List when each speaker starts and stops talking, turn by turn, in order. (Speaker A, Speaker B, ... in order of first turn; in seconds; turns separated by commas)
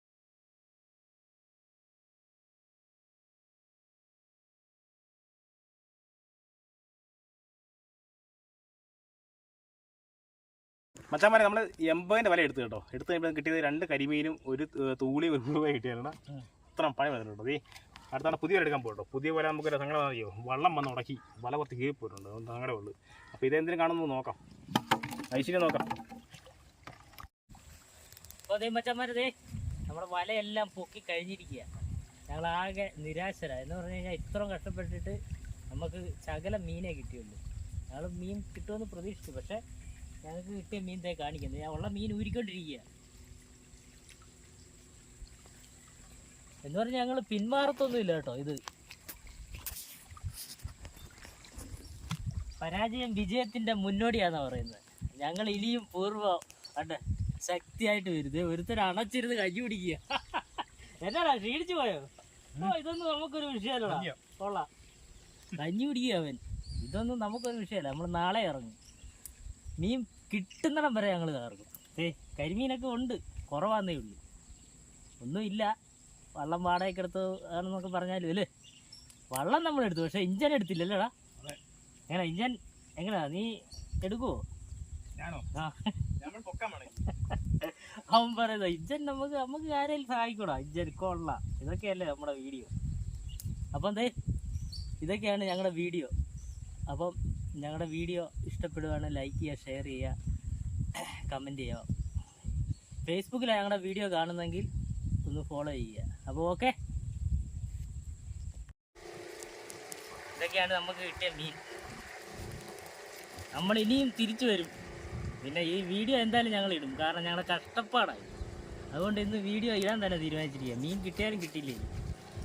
Speaker A: 11.1-16.2, Speaker A: 16.8-17.6, Speaker A: 18.1-24.4, Speaker A: 25.3-25.9, Speaker B: 28.5-29.3, Speaker B: 29.9-31.7, Speaker B: 32.3-35.2, Speaker B: 35.7-39.6, Speaker B: 40.2-42.9, Speaker B: 46.6-48.6, Speaker B: 52.6-64.7, Speaker A: 63.9-64.2, Speaker B: 65.6-68.8, Speaker B: 69.8-74.2, Speaker B: 75.2-75.7, Speaker B: 76.4-78.5, Speaker B: 79.3-81.1, Speaker B: 82.1-84.4, Speaker A: 85.2-85.5, Speaker B: 85.6-85.9, Speaker A: 86.2-87.0, Speaker B: 87.3-92.7, Speaker B: 93.7-94.1, Speaker B: 95.0-96.1, Speaker B: 96.9-100.2, Speaker B: 101.0-101.9, Speaker B: 103.1-104.7, Speaker B: 105.2-106.7, Speaker B: 110.4-111.6, Speaker B: 113.5-114.7, Speaker B: 115.4-118.3, Speaker B: 118.9-121.9